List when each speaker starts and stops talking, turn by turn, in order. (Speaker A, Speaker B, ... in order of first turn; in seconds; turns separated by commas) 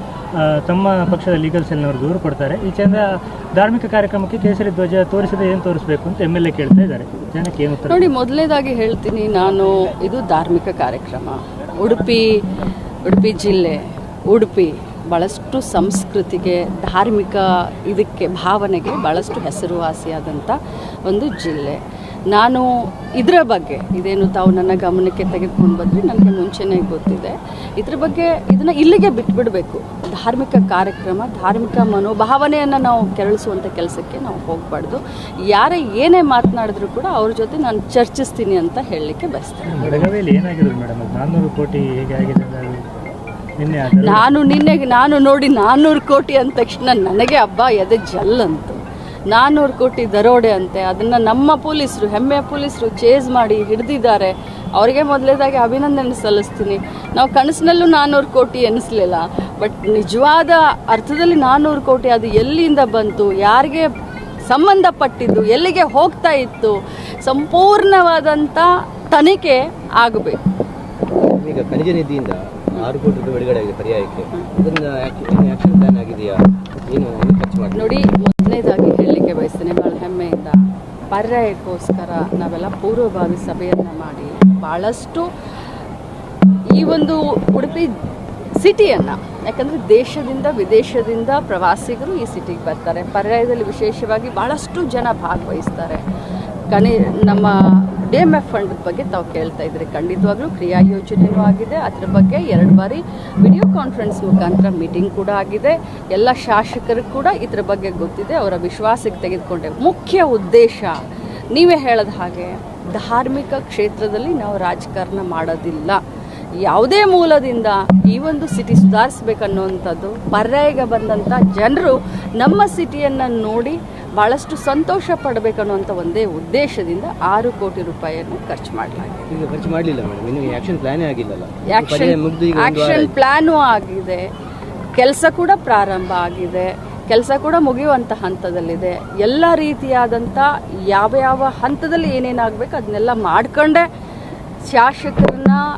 Speaker A: 0.3-8.1, Speaker B: 7.9-12.4, Speaker B: 13.0-21.8, Speaker B: 22.3-40.0, Speaker A: 39.7-44.3, Speaker B: 44.0-48.8, Speaker B: 49.3-63.9, Speaker B: 64.5-70.4, Speaker C: 71.4-78.0, Speaker B: 77.8-80.6, Speaker B: 81.1-85.3, Speaker B: 86.8-87.9, Speaker B: 88.6-96.0, Speaker B: 96.7-111.0, Speaker B: 111.5-116.0, Speaker B: 116.7-129.3, Speaker C: 129.3-133.1, Speaker B: 131.7-134.2, Speaker B: 134.9-143.8, Speaker B: 144.7-145.6